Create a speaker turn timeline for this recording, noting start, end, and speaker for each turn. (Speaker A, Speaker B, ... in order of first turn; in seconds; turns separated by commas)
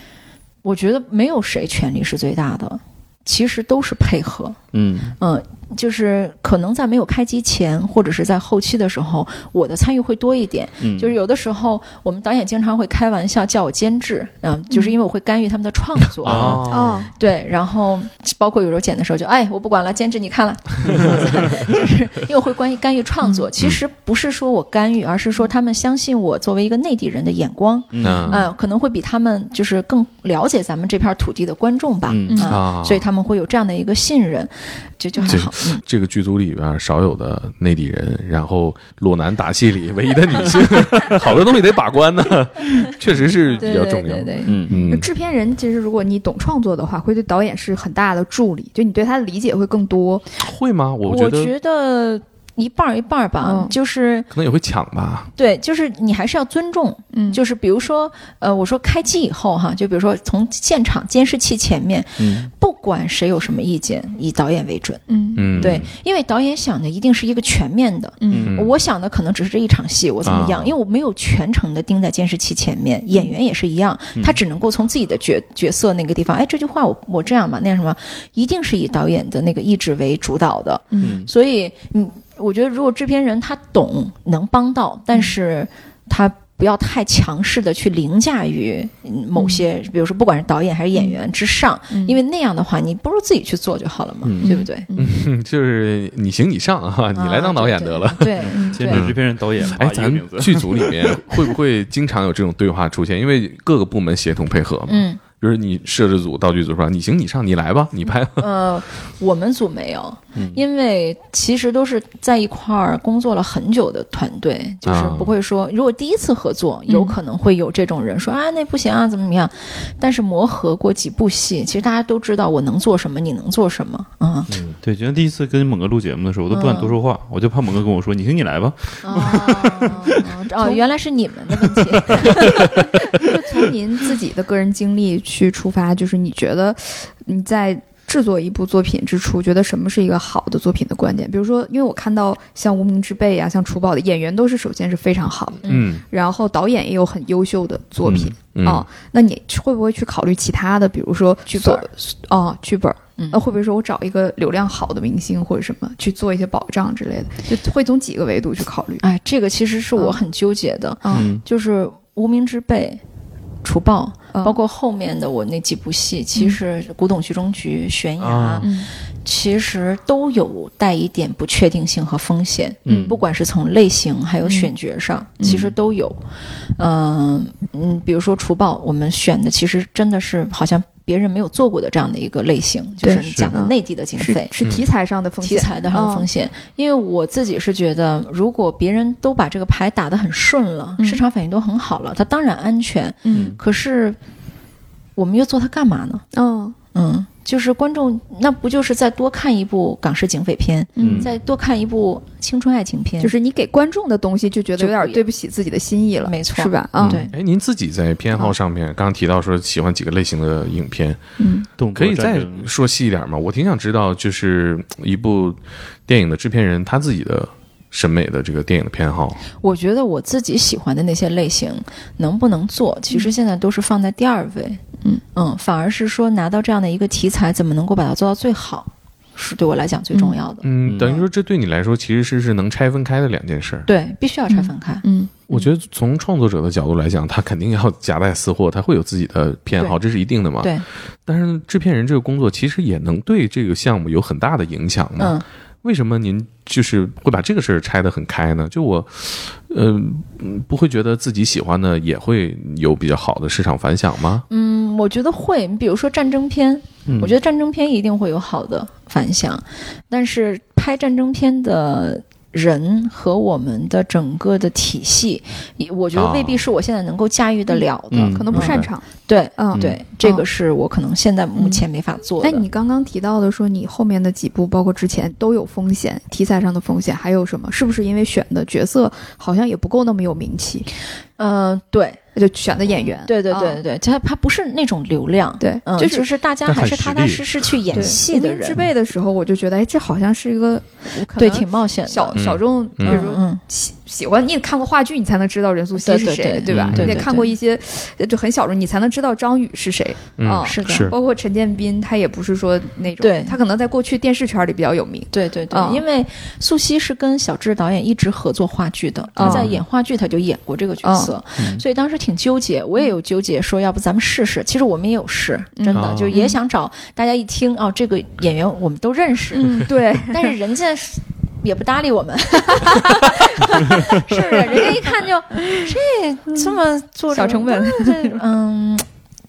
Speaker A: 0.6-4.6, Speaker B: 4.7-5.2, Speaker A: 5.2-35.8, Speaker B: 10.8-11.2, Speaker C: 16.2-17.0, Speaker B: 16.2-16.7, Speaker D: 16.7-17.1, Speaker B: 27.9-28.4, Speaker C: 28.0-28.4, Speaker B: 32.1-32.5, Speaker D: 32.3-32.5, Speaker C: 32.5-33.0, Speaker C: 35.2-45.1, Speaker A: 43.5-44.6, Speaker B: 44.5-44.8, Speaker D: 44.9-50.2, Speaker C: 50.4-51.5, Speaker A: 51.0-54.3, Speaker D: 53.4-53.8, Speaker C: 54.3-55.3, Speaker A: 55.4-65.0, Speaker D: 57.1-57.4, Speaker B: 62.2-62.5, Speaker D: 65.1-65.5, Speaker C: 65.3-65.9, Speaker A: 65.5-94.9, Speaker D: 68.2-68.5, Speaker B: 68.3-68.6, Speaker C: 68.5-68.7, Speaker C: 70.2-70.7, Speaker D: 80.9-81.2, Speaker B: 81.0-81.3, Speaker D: 89.3-89.7, Speaker D: 91.0-91.2, Speaker D: 91.9-92.2, Speaker B: 94.2-94.5, Speaker D: 94.4-95.2, Speaker C: 95.0-108.5, Speaker A: 97.1-99.1, Speaker B: 98.4-101.5, Speaker D: 98.5-98.8, Speaker A: 104.9-105.2, Speaker A: 108.4-124.5, Speaker B: 110.3-110.6, Speaker C: 114.8-115.3, Speaker D: 116.9-117.2, Speaker C: 124.5-124.8, Speaker B: 124.8-130.3, Speaker A: 126.5-127.0, Speaker A: 129.0-133.2, Speaker D: 129.1-129.9, Speaker D: 132.3-159.0, Speaker A: 145.6-145.9, Speaker C: 145.7-146.0, Speaker B: 148.0-148.3, Speaker C: 148.5-148.9, Speaker A: 151.5-151.9, Speaker A: 159.0-163.0, Speaker D: 160.0-160.2, Speaker D: 161.0-161.3, Speaker B: 161.1-161.4, Speaker A: 163.6-176.2, Speaker D: 164.3-164.6, Speaker C: 168.2-168.7, Speaker D: 168.6-168.9, Speaker D: 172.9-173.2, Speaker B: 172.9-173.2, Speaker D: 174.4-174.7, Speaker D: 175.4-175.7, Speaker A: 176.8-184.5, Speaker D: 183.0-186.3, Speaker B: 183.3-183.5, Speaker A: 185.4-194.2, Speaker D: 193.2-193.6, Speaker B: 193.3-193.6, Speaker A: 195.2-196.2, Speaker D: 196.3-196.8, Speaker A: 196.9-203.3, Speaker D: 201.0-201.3, Speaker B: 201.0-201.3, Speaker D: 203.2-207.2, Speaker A: 204.8-205.2, Speaker A: 206.2-207.3, Speaker B: 207.0-207.3, Speaker C: 207.3-211.2, Speaker D: 211.4-211.7, Speaker B: 211.8-212.7, Speaker C: 211.9-219.4, Speaker A: 219.5-224.8, Speaker A: 225.3-231.2, Speaker D: 230.1-230.4, Speaker C: 230.6-233.9, Speaker B: 230.8-231.2, Speaker A: 233.9-235.0, Speaker D: 234.5-235.7, Speaker C: 235.5-254.4, Speaker A: 245.2-245.4, Speaker A: 254.5-272.6, Speaker B: 257.1-257.4, Speaker C: 266.1-266.7, Speaker D: 267.7-269.1, Speaker B: 268.1-268.5, Speaker C: 268.5-268.9, Speaker D: 269.6-270.4, Speaker D: 271.6-271.8, Speaker D: 272.4-280.9, Speaker A: 281.4-282.2, Speaker D: 282.4-283.8, Speaker A: 283.1-288.8, Speaker D: 285.6-286.3, Speaker B: 286.6-288.1, Speaker D: 287.9-306.0, Speaker A: 291.3-292.4, Speaker C: 292.4-293.2, Speaker A: 293.0-293.6, Speaker A: 295.9-297.5, Speaker B: 296.7-297.1, Speaker C: 296.7-297.1, Speaker C: 300.4-301.1, Speaker A: 300.6-301.1, Speaker A: 303.2-303.6, Speaker A: 305.3-329.1, Speaker D: 309.4-309.7, Speaker C: 309.4-309.7, Speaker D: 311.0-311.3, Speaker D: 315.8-316.6, Speaker C: 315.9-316.4, Speaker D: 319.5-320.5, Speaker D: 322.8-323.1, Speaker D: 327.3-328.4